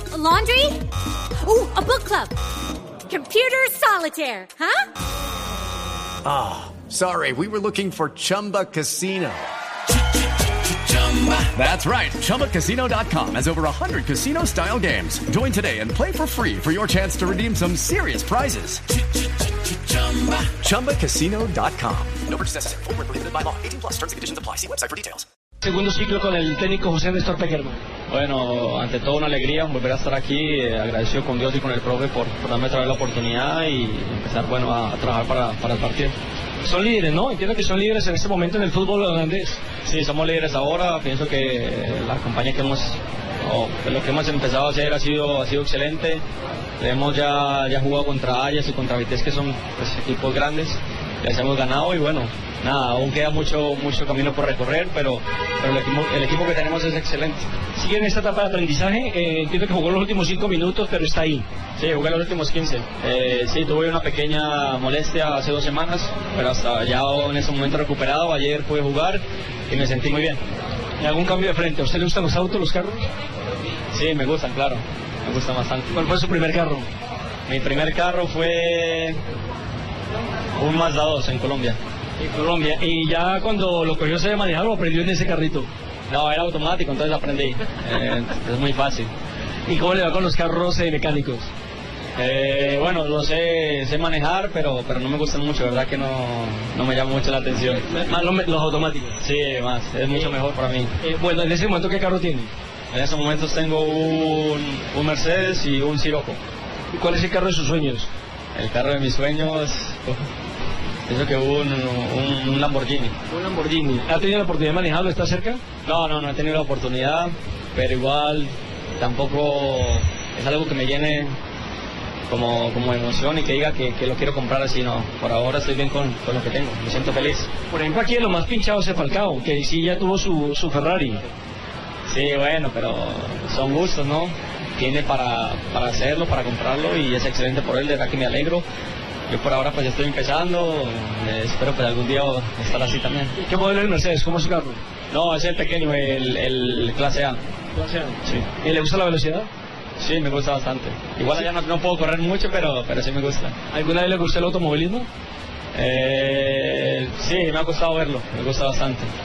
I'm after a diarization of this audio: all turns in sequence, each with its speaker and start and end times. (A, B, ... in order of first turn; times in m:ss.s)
0:00.1-0:00.8 A
0:01.4-0:02.3 A
0:03.1-0:04.9 A
0:06.2-0:09.5 B
0:10.7-0:18.8 B
0:19.6-0:25.2 B
0:25.6-0:27.8 C
0:28.1-0:36.2 D
0:36.6-0:39.6 C
0:39.8-0:46.2 D
0:46.8-0:57.5 D
0:57.8-1:01.4 C
1:01.8-1:10.4 D
1:11.0-1:13.0 C
1:13.9-1:16.1 D
1:15.9-1:16.9 C
1:17.5-1:19.2 D
1:20.6-1:21.8 D
1:22.2-1:25.7 C
1:26.1-1:29.1 D
1:29.7-1:31.5 C
1:32.2-1:38.0 D
1:37.8-1:39.2 C
1:39.2-1:40.9 D
1:41.0-1:42.5 C
1:42.9-1:46.4 D
1:46.9-1:48.1 C
1:48.6-1:50.3 D
1:51.1-1:53.2 D
1:53.3-1:55.6 C
1:55.8-2:01.4 D
2:02.3-2:07.5 D
2:07.7-2:11.3 C
2:12.1-2:18.6 D
2:19.3-2:23.4 D
2:23.4-2:24.8 C
2:25.1-2:27.4 D
2:27.8-2:29.5 C
2:30.0-2:33.6 D
2:33.7-2:35.1 C
2:35.7-2:39.1 D